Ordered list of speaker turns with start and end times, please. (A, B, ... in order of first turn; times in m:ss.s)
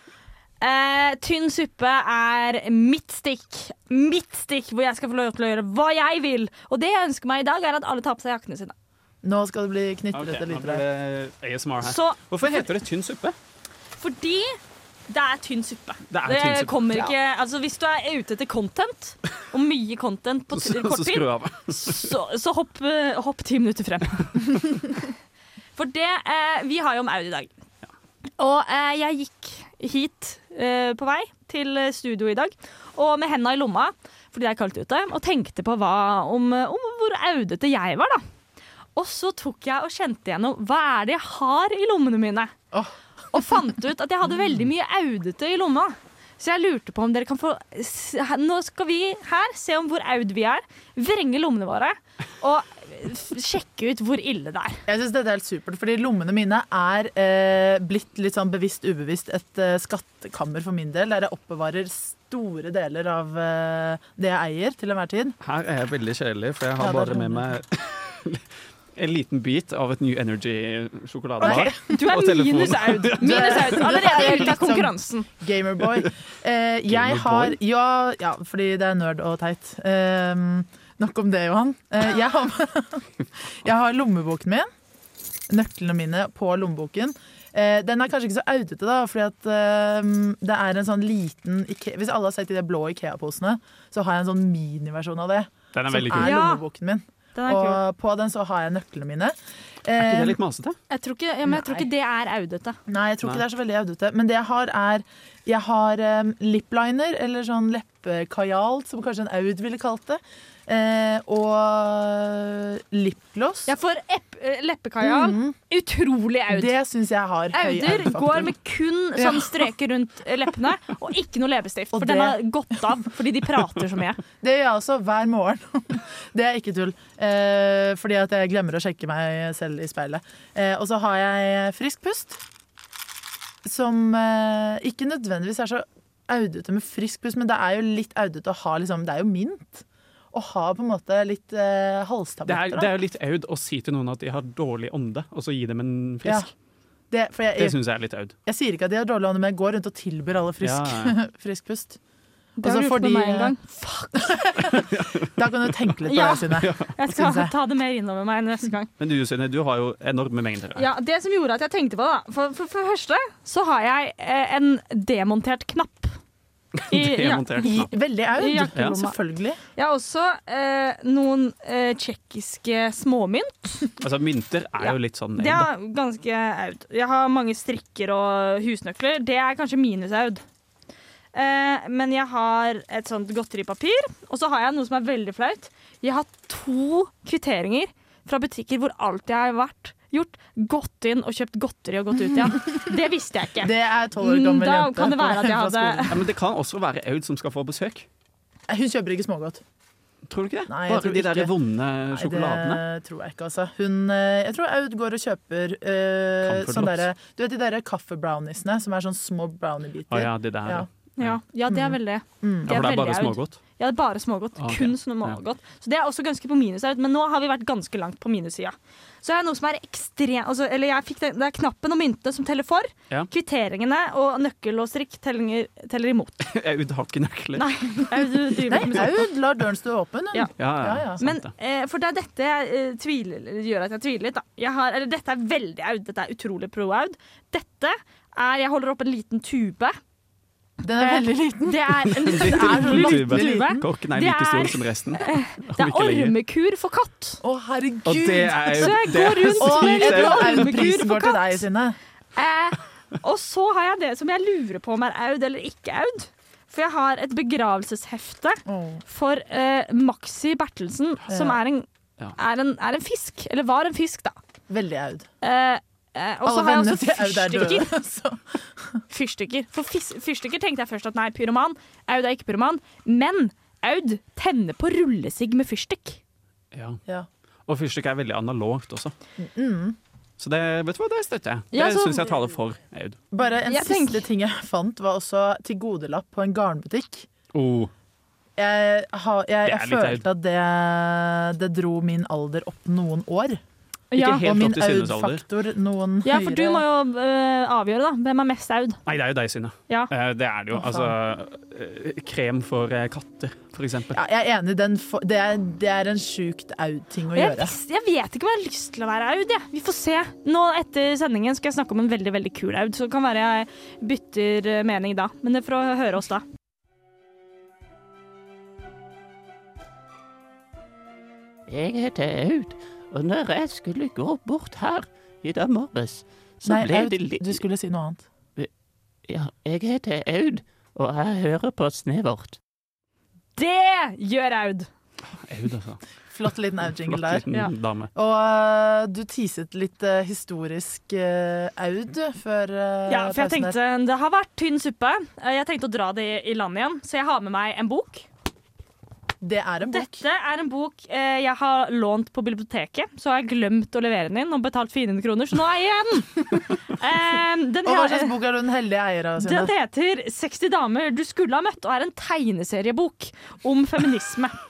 0:00.6-0:08.7 A
0:09.2-0:10.8 B
0:10.1-0:13.4 C
0:11.8-0:12.2 A
0:14.0-0:14.6 A
0:15.1-0:24.6 A
0:16.1-0:17.1 C
0:20.5-0:22.1 C
0:25.8-0:27.5 A
0:28.4-0:38.2 A
0:39.0-0:42.5 A
0:42.7-0:43.5 B
0:43.3-0:54.8 A
0:54.9-1:05.4 B
1:05.4-1:08.4 C
1:06.8-1:07.5 B
1:09.0-1:14.6 C
1:11.4-1:11.8 B
1:11.4-1:15.3 A
1:13.2-1:24.7 B
1:16.9-1:17.6 C
1:25.5-1:40.4 B
1:35.7-1:36.4 C
1:36.2-1:36.6 A
1:37.4-1:37.8 A
1:40.0-1:40.8 C
1:40.9-1:42.8 A
1:41.5-1:41.9 B
1:42.9-1:53.7 B
1:53.7-1:56.7 A
1:55.0-1:55.6 B
1:56.5-1:58.5 B
1:57.5-2:04.2 A
1:59.2-1:59.7 B
2:01.9-2:02.4 B
2:04.4-2:12.4 B
2:13.6-2:22.9 B
2:22.5-2:26.5 C
2:26.2-2:26.5 B
2:27.1-2:27.8 B
2:27.6-2:28.3 C
2:28.5-2:32.0 B
2:30.6-2:31.2 C
2:32.6-2:34.3 A
2:32.6-2:33.6 B
2:34.2-2:37.5 B
2:34.7-2:35.3 C
2:36.1-2:38.9 A
2:36.6-2:37.0 C
2:39.0-2:40.9 C
2:40.8-2:46.2 A
2:46.8-2:47.9 C
2:46.9-2:47.8 A
2:47.6-2:49.6 B
2:48.4-2:49.2 A
2:49.8-2:53.9 A
2:54.0-2:55.7 C
2:54.8-3:00.4 A
3:01.3-3:16.1 A
3:12.4-3:12.9 B
3:13.6-3:16.2 B
3:16.1-3:18.1 C
3:18.7-3:19.6 B
3:20.3-3:22.8 C
3:20.7-3:21.5 B
3:22.1-3:30.9 B
3:26.4-3:27.0 C
3:30.1-3:31.4 C
3:31.2-3:46.4 A
3:31.7-3:32.8 B
3:32.7-3:33.6 C
3:34.6-3:35.4 C
3:46.4-3:48.1 C
3:47.6-3:49.2 A
3:48.7-3:51.2 B
3:50.6-3:51.5 C
3:51.2-4:00.0 A
4:00.8-4:03.9 B
4:01.0-4:07.4 A
4:02.2-4:06.4 C
4:07.4-4:09.0 B
4:08.0-4:11.0 C
4:08.7-4:11.6 A
4:09.5-4:12.0 B
4:12.4-4:24.4 A
4:18.7-4:19.0 B
4:21.3-4:21.6 B
4:24.7-4:25.3 B
4:25.4-4:27.9 A
4:26.4-4:29.0 B
4:29.1-4:36.2 A
4:36.7-4:37.0 C
4:37.7-4:39.1 C
4:39.4-4:40.0 B
4:40.4-4:43.2 C
4:41.7-4:42.3 A
4:43.3-4:47.3 B
4:43.7-4:44.3 A
4:47.5-4:47.9 C
4:48.6-4:53.6 B
4:49.6-4:50.2 C
4:54.1-4:54.4 A
4:54.1-4:55.4 C
4:54.4-4:56.8 B
4:56.2-4:59.0 A
4:59.1-5:04.2 C
5:00.7-5:01.2 B
5:04.1-5:07.8 B
5:07.3-5:16.4 A
5:21.7-5:27.5 D
5:26.6-5:28.3 B
5:29.3-5:32.6 D
5:33.6-5:34.9 A
5:35.4-5:36.0 C
5:36.3-5:37.4 B
5:37.0-5:38.1 C
5:38.1-5:43.8 B
5:43.1-5:48.3 A
5:49.4-5:50.2 B
5:49.9-5:58.4 A
5:57.8-5:59.7 B
5:59.4-6:04.6 A